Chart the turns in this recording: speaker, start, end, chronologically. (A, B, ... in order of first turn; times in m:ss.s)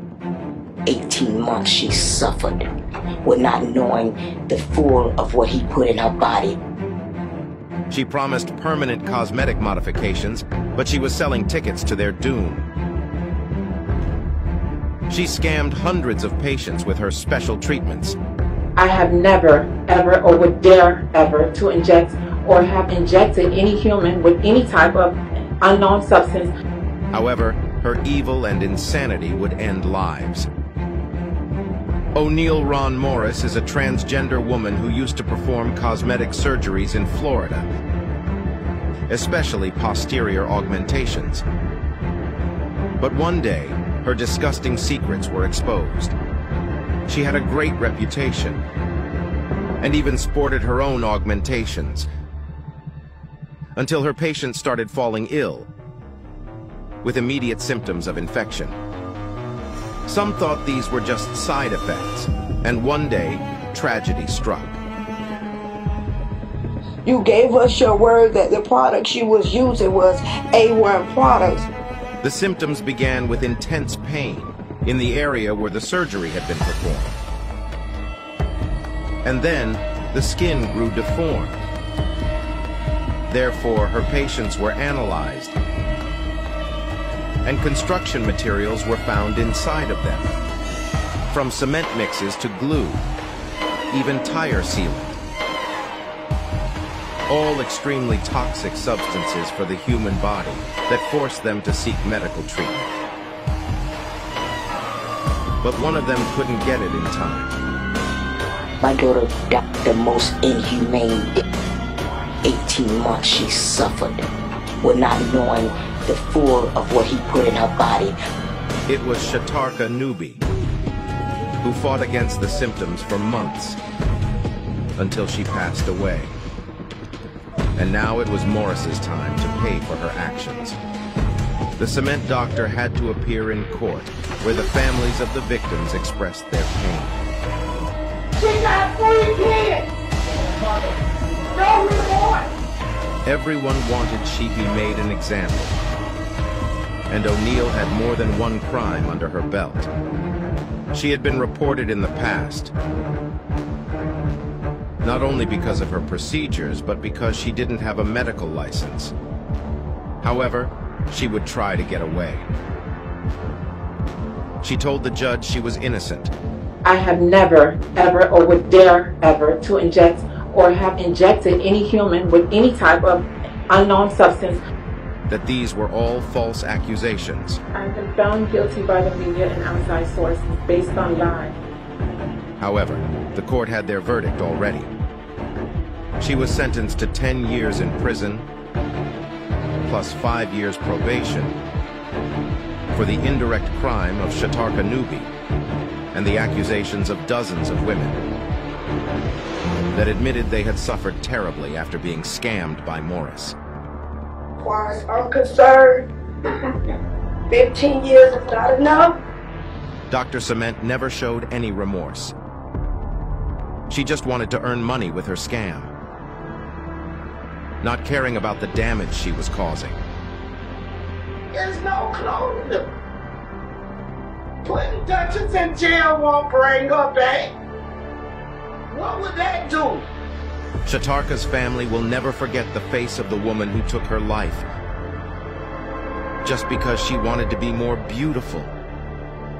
0:00.9-0:02.6 A
0:03.2-0:06.6 A
0:07.9-0:12.7 B
0:15.1-0:18.2 B
0:18.8-0:26.5 C
0:27.1-0:30.5 B
0:32.2-0:37.7 B
0:39.1-0:41.4 B
0:43.0-0:46.2 B
0:47.1-0:48.6 B
0:49.8-0:52.1 B
0:53.8-0:55.7 B
0:57.0-0:58.8 B
1:00.1-1:04.8 B
1:07.0-1:11.7 D
1:12.2-1:17.2 B
1:19.2-1:21.6 B
1:23.3-1:25.6 B
1:27.4-1:30.3 B
1:31.3-1:33.1 B
1:33.9-1:35.2 B
1:37.3-1:42.9 B
1:45.6-1:47.6 B
1:48.8-1:51.4 A
1:52.4-1:54.2 A
1:54.8-1:58.2 A
1:58.9-2:00.4 B
2:01.6-2:03.8 B
2:05.0-2:06.4 B
2:07.8-2:10.8 B
2:11.8-2:17.2 B
2:18.4-2:19.9 D
2:21.5-2:22.5 D
2:23.2-2:25.8 B
2:27.1-2:29.9 B
2:30.9-2:32.7 B
2:35.0-2:39.1 B
2:40.2-2:42.5 B
2:44.6-2:46.3 B
2:46.8-2:54.6 C
2:55.3-2:57.6 B
2:57.7-3:01.6 C
3:02.6-3:04.9 B
3:06.2-3:08.5 B
3:09.8-3:11.6 B
3:12.9-3:15.3 B
3:16.1-3:18.2 B
3:19.9-3:23.6 B
3:24.6-3:26.1 D
3:27.5-3:29.2 D
3:30.1-3:32.4 B
3:33.9-3:35.9 B
3:37.8-3:40.0 B
3:41.5-3:42.9 D
3:44.6-3:47.5 D
3:48.9-3:50.1 D
3:50.8-3:54.7 B
3:56.4-3:58.7 B